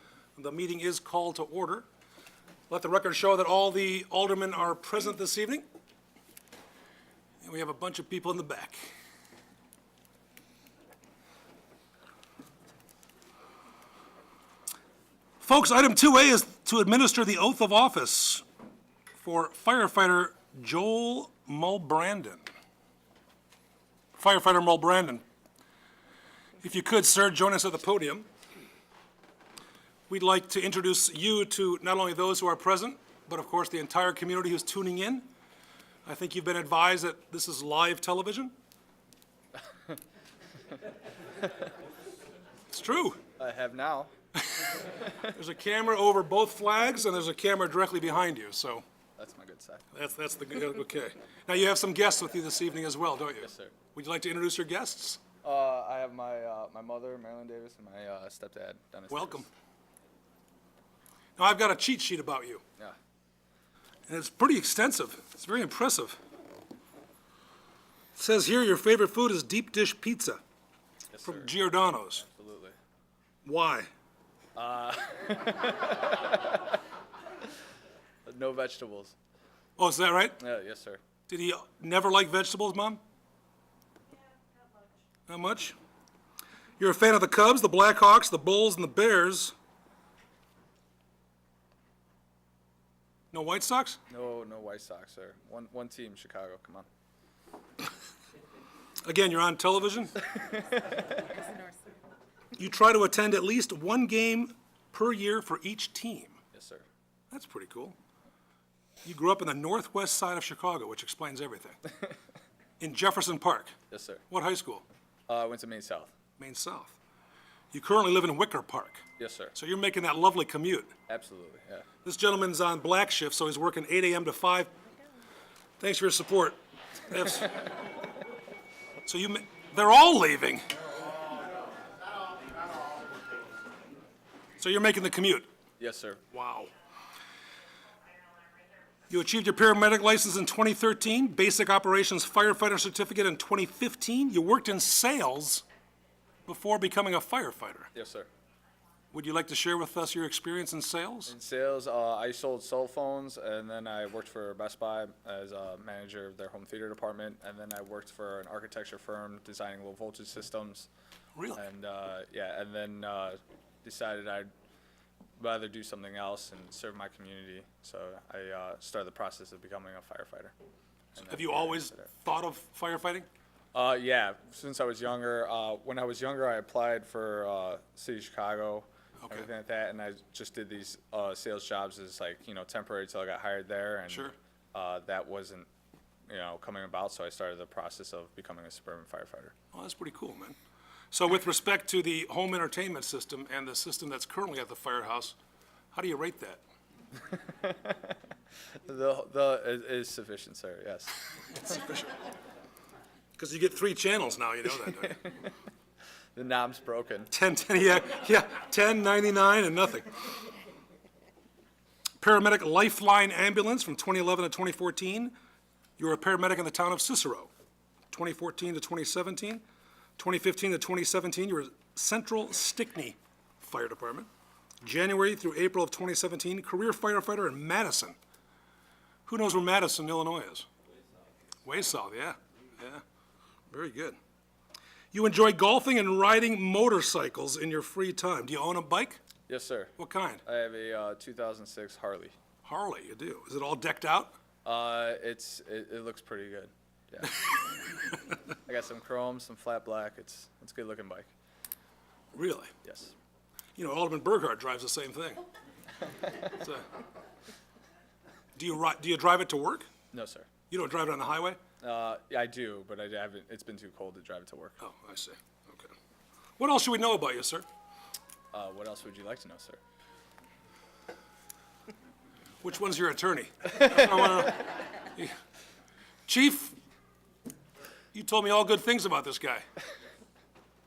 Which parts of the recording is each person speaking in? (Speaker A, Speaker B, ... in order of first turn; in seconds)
Speaker A: 0.3-1.9, 2.7-5.7, 7.4-8.9, 15.4-18.4, 19.2-22.4, 24.1-25.2, 26.6-28.3, 30.1-35.3, 36.0-38.5, 42.7-43.2, 45.2-48.8, 49.9-55.2, 59.1-59.5, 61.4-62.6, 64.1-66.2, 68.1-70.4, 71.2-72.2, 73.4-73.9, 79.8-80.4, 81.3-83.0, 85.3-85.8, 86.8-89.5, 93.3-94.0, 99.0-100.2, 102.5-106.4, 107.3-108.0, 109.0-111.8, 112.8-113.7, 114.3-114.8, 116.4-117.0, 117.7-119.0, 119.5-120.9, 122.0-124.7, 125.8-126.6, 127.1-127.5, 129.1-130.6, 134.6-135.5, 136.3-136.7, 139.1-145.7, 146.4-147.9, 149.1-151.3, 161.3-161.6, 171.3-173.3, 179.2-179.5, 184.1-184.3, 189.7-190.6, 191.1-195.3, 195.9-196.6, 201.5-202.2, 203.4-205.2, 207.3-210.1, 212.2-215.3, 216.0-217.5, 218.1-219.6, 220.2-224.3, 224.8-228.2, 229.2-230.7, 231.6-233.0, 233.7-234.2, 235.1-239.2, 240.0-240.4, 242.6-244.3, 252.3-252.7, 253.8-255.4, 256.4-256.8, 258.6-259.9, 260.7-261.6, 264.8-265.9, 266.6-267.6, 272.6-275.3, 276.2-276.8, 278.1-279.6
Speaker B: 43.4-44.1, 49.2-49.9, 53.4-53.7, 55.4-59.5, 71.1-71.5, 72.1-72.8, 74.5-76.4, 78.2-79.2, 80.4-81.0, 94.1-96.9, 106.5-106.9, 113.9-114.2, 115.3-116.1, 119.2-119.5, 121.1-121.8, 135.8-136.3, 147.9-148.3, 151.3-160.9, 161.5-164.5, 165.4-170.5, 171.1-172.1, 173.7-185.7, 186.3-189.5, 197.6-198.0, 198.8-201.2, 205.1-205.5, 206.3-207.3, 239.5-239.9, 240.4-242.3, 244.6-247.5, 248.7-251.3, 252.8-253.1, 260.1-260.5, 261.8-264.8, 268.5-269.8